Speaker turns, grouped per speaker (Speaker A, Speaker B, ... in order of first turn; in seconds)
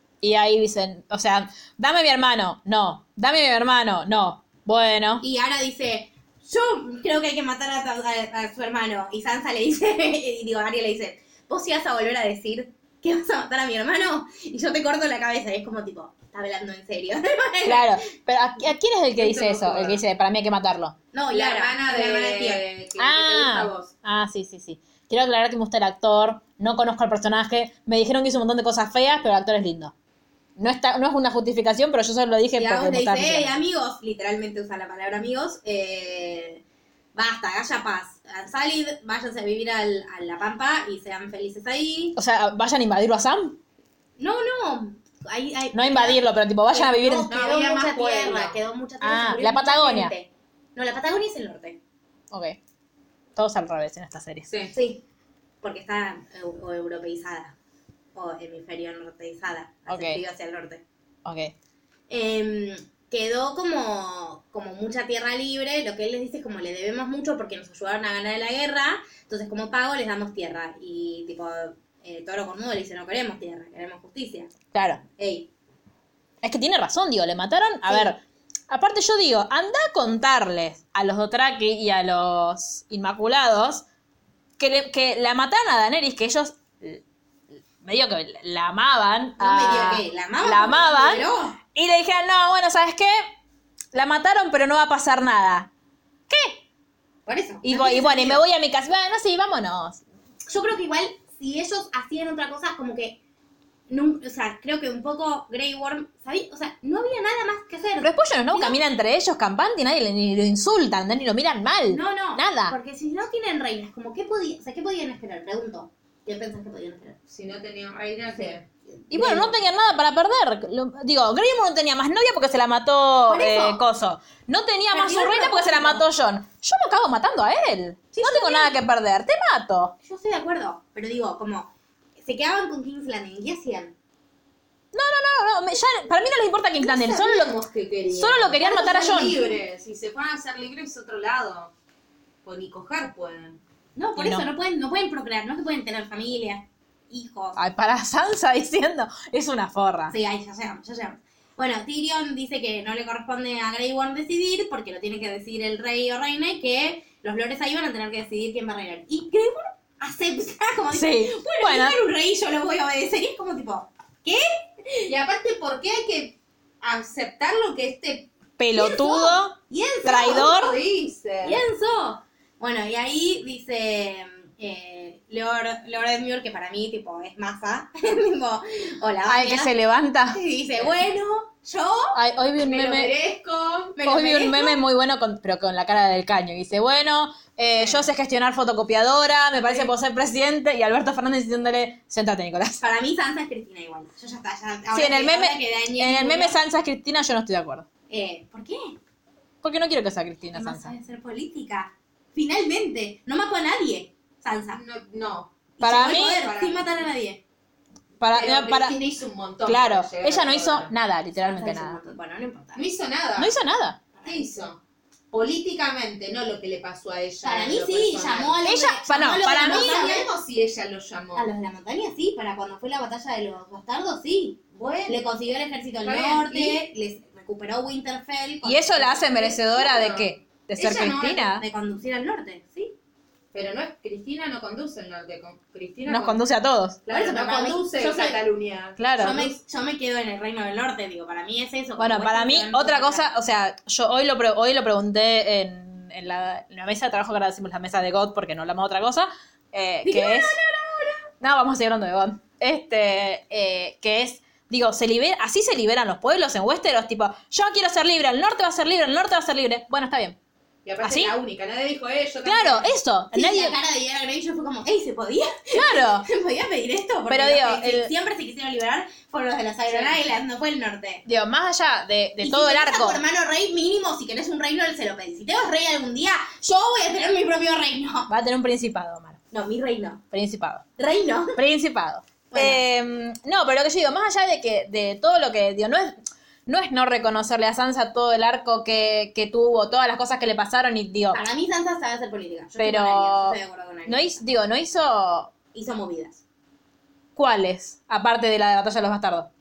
Speaker A: 0.2-5.2, 17.6-20.9, 23.0-29.9, 30.6-33.6, 42.1-43.6, 45.7-47.3, 49.0-50.1, 52.3-52.6, 53.4-54.5, 59.9-60.2, 61.2-61.5, 74.7-75.0, 76.4-83.8, 84.6-87.0, 87.8-93.3, 93.9-95.7, 96.3-96.6, 97.6-100.0, 108.0-112.8, 119.1-129.9, 134.9-137.5, 138.1-139.4, 144.2-144.4, 147.6-150.1, 160.9-161.9, 168.6-170.7, 179.2-180.4, 182.1-183.1, 184.0-192.8, 194.9-197.8, 199.6-200.9, 205.8-206.4, 208.2-208.9, 209.7-212.0, 213.4-214.0, 218.6-220.0, 228.6-231.6, 236.1-237.0, 239.0-239.4, 242.0-250.6, 251.4-260.4, 261.0-261.3, 262.4-263.7, 265.7-266.2, 267.3-268.1, 271.2-273.2, 278.3-279.4, 280.3-280.8, 281.6-286.1, 286.7-291.4, 292.8-295.5, 297.4-299.5
Speaker B: 5.2-18.0, 21.1-22.6, 32.5-36.6, 37.1-42.1, 44.2-51.8, 54.7-55.0, 55.6-57.5, 58.1-60.8, 62.1-74.5, 75.2-75.5, 77.9-78.1, 89.4-91.6, 97.2-98.4, 100.5-103.2, 103.9-108.8, 111.9-117.2, 118.4-119.5, 123.3-123.8, 124.9-126.0, 128.1-128.7, 130.0-133.9, 143.9-147.6, 150.1-165.1, 168.8-170.5, 171.4-179.7, 180.3-182.2, 183.9-184.8, 192.8-196.6, 198.1-199.0, 200.5-204.8, 205.8-207.4, 211.4-212.8, 217.4-220.3, 221.3-229.6, 231.5-232.9, 237.1-238.4, 239.2-243.3, 250.0-251.3, 263.3-271.2, 272.4-278.3, 279.5-280.2, 281.0-281.6, 282.5-282.8, 291.3-294.4, 295.7-296.4
Speaker C: 19.1-20.0, 21.3-23.9, 47.3-48.6, 54.5-54.7, 117.3-118.7, 136.8-141.7, 142.4-143.6, 165.1-168.3, 170.2-171.6, 182.6-184.0, 204.7-207.0, 208.3-210.9, 212.7-213.5, 214.2-214.8, 215.3-218.6, 219.5-221.5, 224.7-225.2, 226.0-226.8, 229.7-231.4, 233.5-236.4, 237.1-239.5, 260.8-262.9, 269.9-270.2